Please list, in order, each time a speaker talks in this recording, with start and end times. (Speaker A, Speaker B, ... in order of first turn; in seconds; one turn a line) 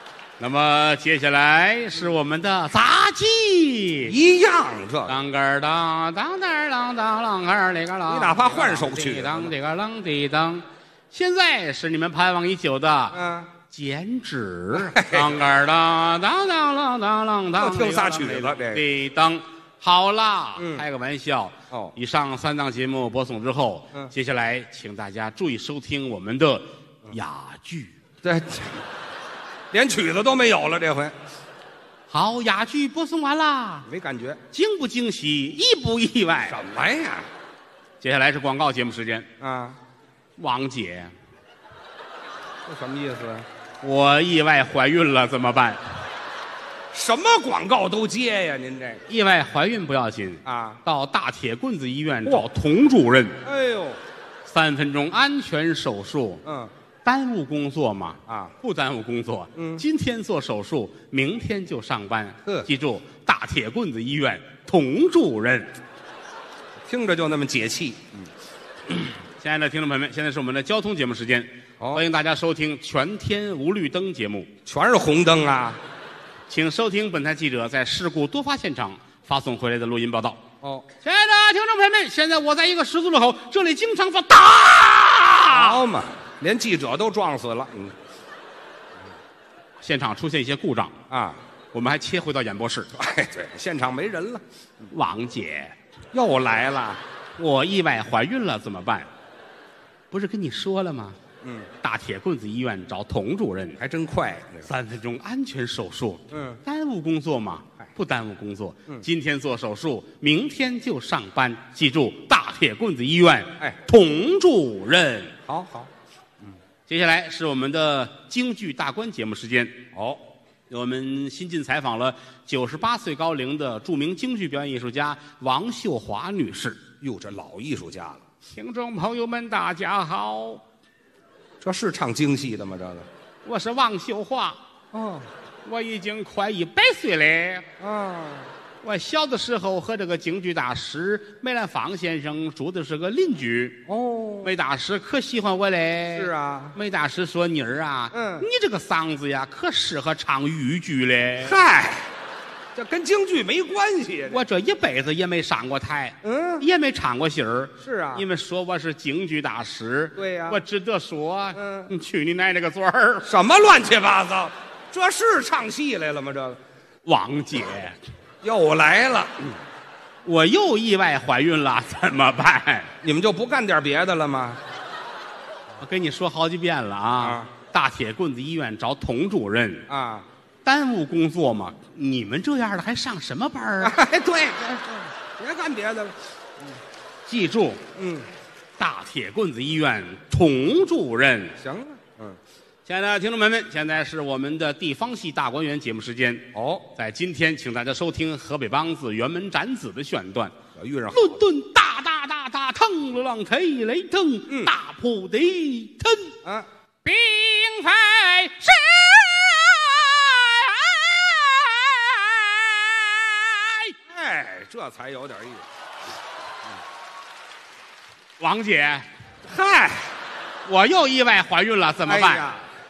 Speaker A: 0.4-4.2
Speaker B: 4.1-5.2
Speaker A: 5.1-28.0
Speaker B: 8.1-9.5
Speaker B: 13.1-13.5
Speaker B: 14.7-15.3
Speaker B: 17.6-18.8
Speaker B: 20.6-20.8
Speaker B: 28.2-28.8
Speaker B: 29.7-31.2
Speaker A: 32.1-33.9
Speaker B: 33.9-34.4
Speaker A: 34.5-36.6
Speaker B: 36.5-37.3
Speaker A: 38.0-39.3
Speaker B: 39.4-39.8
Speaker A: 40.4-41.1
Speaker B: 42.6-43.5
Speaker A: 43.8-45.8
Speaker B: 46.9-49.0
Speaker A: 49.1-53.4
Speaker B: 50.5-50.8
Speaker B: 53.4-54.0
Speaker A: 54.5-56.4
Speaker B: 56.4-56.7
Speaker A: 57.0-65.7
Speaker B: 58.3-58.5
Speaker B: 59.6-59.8
Speaker B: 66.9-68.3
Speaker A: 68.9-74.5
Speaker B: 74.7-75.8
Speaker A: 76.5-80.4
Speaker B: 80.6-80.9
Speaker A: 81.0-85.8
Speaker B: 85.5-88.0
Speaker A: 89.8-91.0
Speaker B: 91.1-91.4
Speaker A: 91.7-92.9
Speaker B: 93.0-94.9
Speaker A: 94.9-95.8
Speaker B: 96.1-97.0
Speaker A: 97.4-99.1
Speaker A: 100.1-101.2
Speaker B: 101.4-101.7
Speaker A: 101.8-103.8
Speaker B: 103.8-104.7
Speaker A: 104.6-115.4
Speaker B: 106.3-106.6
Speaker B: 115.5-115.9
Speaker A: 116.9-119.8
Speaker B: 119.9-120.2
Speaker A: 120.7-126.8
Speaker B: 127.0-128.2
Speaker A: 128.5-130.6
Speaker B: 131.6-133.1
Speaker A: 133.4-134.6
Speaker B: 134.9-135.3
Speaker A: 135.7-137.7
Speaker B: 137.8-138.5
Speaker A: 138.8-143.8
Speaker B: 143.9-144.5
Speaker A: 144.4-151.6
Speaker B: 146.1-146.8
Speaker B: 148.1-148.5
Speaker B: 151.4-152.1
Speaker B: 152.7-154.4
Speaker A: 154.3-163.3
Speaker B: 156.2-156.7
Speaker B: 157.8-158.3
Speaker B: 160.2-160.6
Speaker B: 161.6-161.9
Speaker B: 163.2-166.6
Speaker A: 167.1-168.0
Speaker B: 168.4-169.6
Speaker A: 170.2-172.9
Speaker B: 173.0-174.6
Speaker A: 175.8-179.9
Speaker B: 177.2-177.5
Speaker B: 179.9-180.3
Speaker A: 180.7-184.0
Speaker B: 183.8-186.2
Speaker A: 187.3-187.8
Speaker B: 187.9-188.3
Speaker A: 188.8-191.6
Speaker B: 191.6-192.4
Speaker A: 192.8-200.6
Speaker B: 196.5-196.9
Speaker B: 200.8-201.4
Speaker A: 201.1-206.3
Speaker B: 204.5-204.7
Speaker A: 207.1-214.0
Speaker B: 214.1-215.7
Speaker A: 218.4-219.1
Speaker B: 219.4-220.2
Speaker A: 220.7-222.6
Speaker B: 222.1-222.6